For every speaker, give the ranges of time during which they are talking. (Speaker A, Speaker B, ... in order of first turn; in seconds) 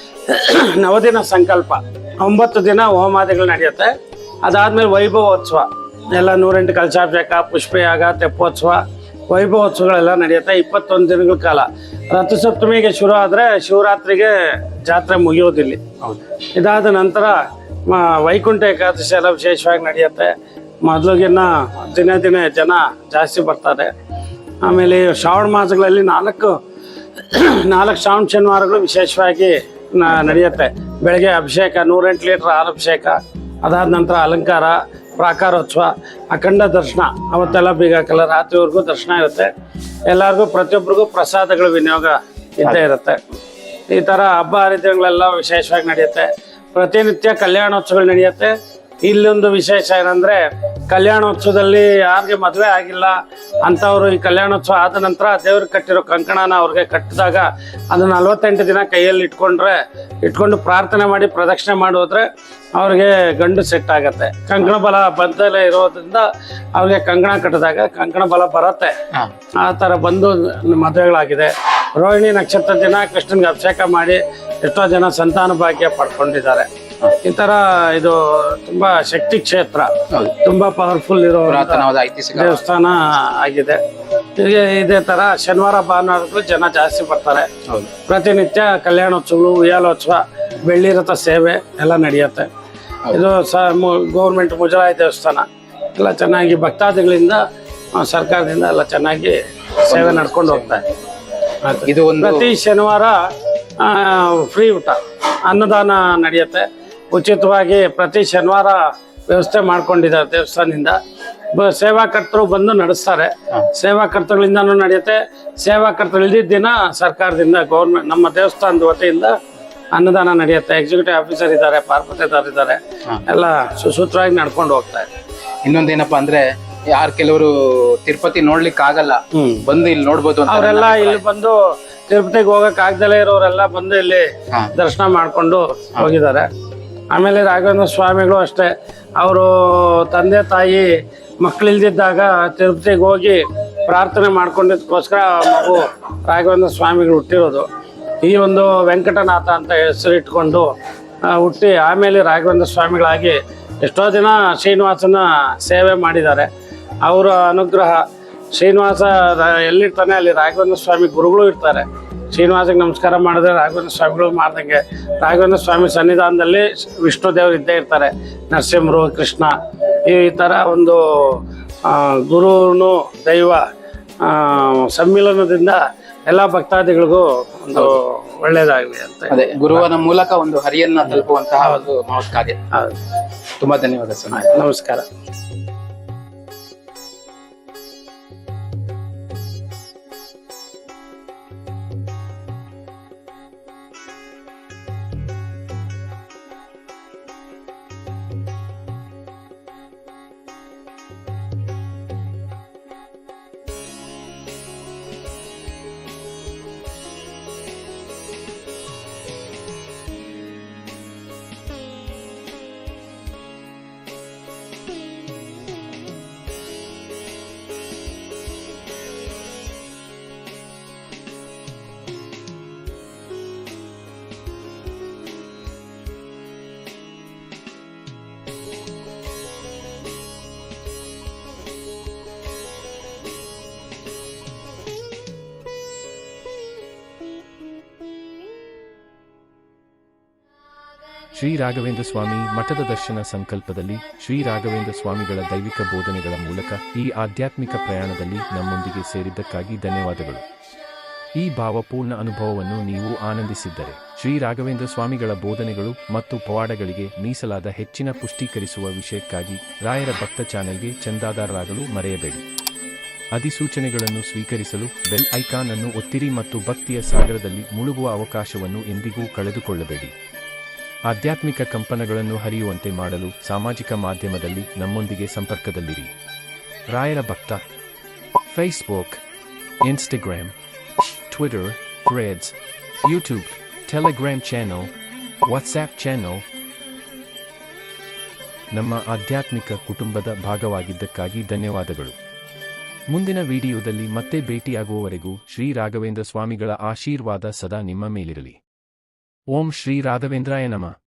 Speaker A: 0.3-15.8, 16.5-17.4, 17.9-23.9, 24.6-26.5, 27.2-39.5, 40.1-43.2, 43.9-68.9, 69.6-76.7, 77.2-83.8, 84.4-87.5, 88.1-92.5, 93.1-97.4, 98.0-100.8, 101.6-103.1, 103.8-111.0, 111.5-119.4, 119.9-125.1, 129.4-129.6, 130.5-131.6, 132.1-134.3, 134.8-136.5, 137.1-140.9, 141.4-147.7, 148.2-150.7, 151.2-156.5, 157.0-158.0, 158.5-173.6, 174.2-179.8, 181.1-181.8, 184.3-185.1
Speaker B: 81.5-82.6, 99.9-100.8, 101.9-102.5, 125.7-131.2, 179.3-182.6, 183.6-184.5
Speaker C: 241.3-250.4, 251.3-262.4, 263.3-270.1, 271.1-276.1, 276.9-277.6, 278.5-279.2, 279.8-280.5, 281.3-284.9, 285.4-286.4, 288.7-292.1, 293.1-298.6, 299.5-300.9